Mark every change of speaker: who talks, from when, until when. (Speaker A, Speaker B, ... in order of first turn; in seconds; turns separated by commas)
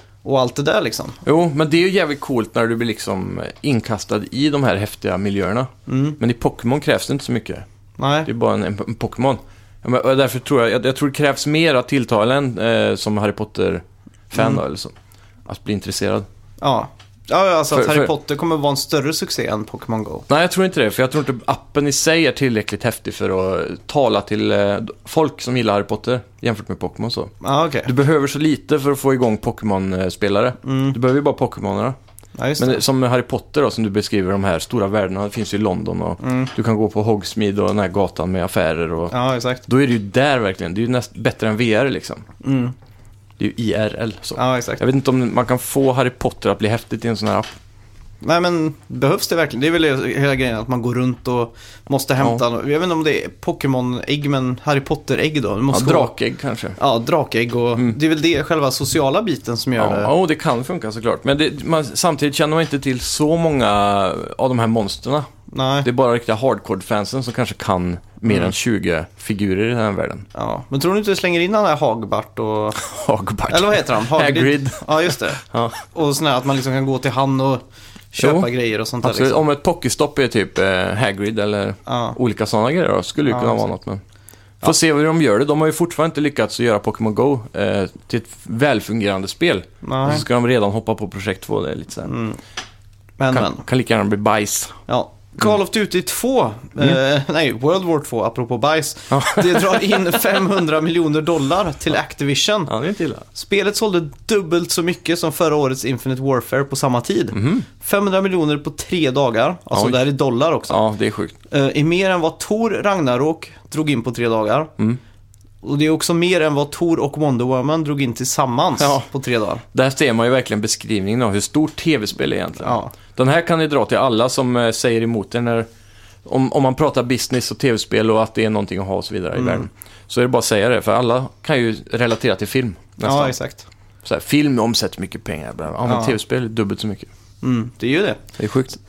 Speaker A: 0.2-1.2, Speaker B: 1.2-7.6, Speaker A: 5.9-6.2, Speaker A: 8.0-8.3, Speaker B: 8.2-14.9, Speaker B: 15.4-16.3, Speaker A: 16.6-20.2, Speaker B: 17.7-18.1, Speaker B: 20.3-27.3, Speaker A: 27.4-27.9, Speaker B: 27.9-31.9, Speaker A: 30.6-30.9, Speaker A: 32.4-32.8, Speaker B: 32.6-39.1, Speaker A: 36.2-36.5, Speaker A: 39.1-39.6, Speaker B: 39.7-42.2, Speaker A: 42.4-42.8, Speaker B: 43.4-47.5, Speaker A: 44.4-44.8, Speaker A: 48.2-56.1, Speaker B: 55.7-56.8, Speaker A: 56.8-60.1, Speaker B: 59.8-65.3, Speaker A: 65.5-65.9, Speaker B: 65.8-70.3, Speaker A: 70.3-72.8, Speaker B: 72.8-75.8, Speaker A: 73.5-75.4, Speaker A: 75.9-79.4, Speaker B: 78.2-78.5, Speaker B: 79.0-84.0, Speaker A: 81.9-82.2, Speaker A: 83.3-83.7, Speaker B: 84.6-92.1, Speaker A: 89.8-90.2, Speaker A: 92.0-92.4, Speaker A: 93.2-93.6, Speaker B: 93.3-94.8, Speaker A: 94.9-102.7, Speaker B: 99.1-100.2, Speaker B: 102.7-103.2, Speaker A: 103.3-110.8, Speaker B: 107.3-107.7, Speaker B: 110.7-111.3, Speaker A: 111.5-114.7, Speaker A: 115.6-119.6, Speaker B: 118.8-119.1, Speaker B: 119.7-125.7, Speaker A: 122.6-122.9, Speaker B: 126.2-133.3, Speaker A: 129.3-129.7, Speaker A: 133.0-133.7, Speaker B: 134.0-137.1, Speaker A: 135.8-136.2, Speaker A: 137.4-138.2, Speaker B: 138.4-138.8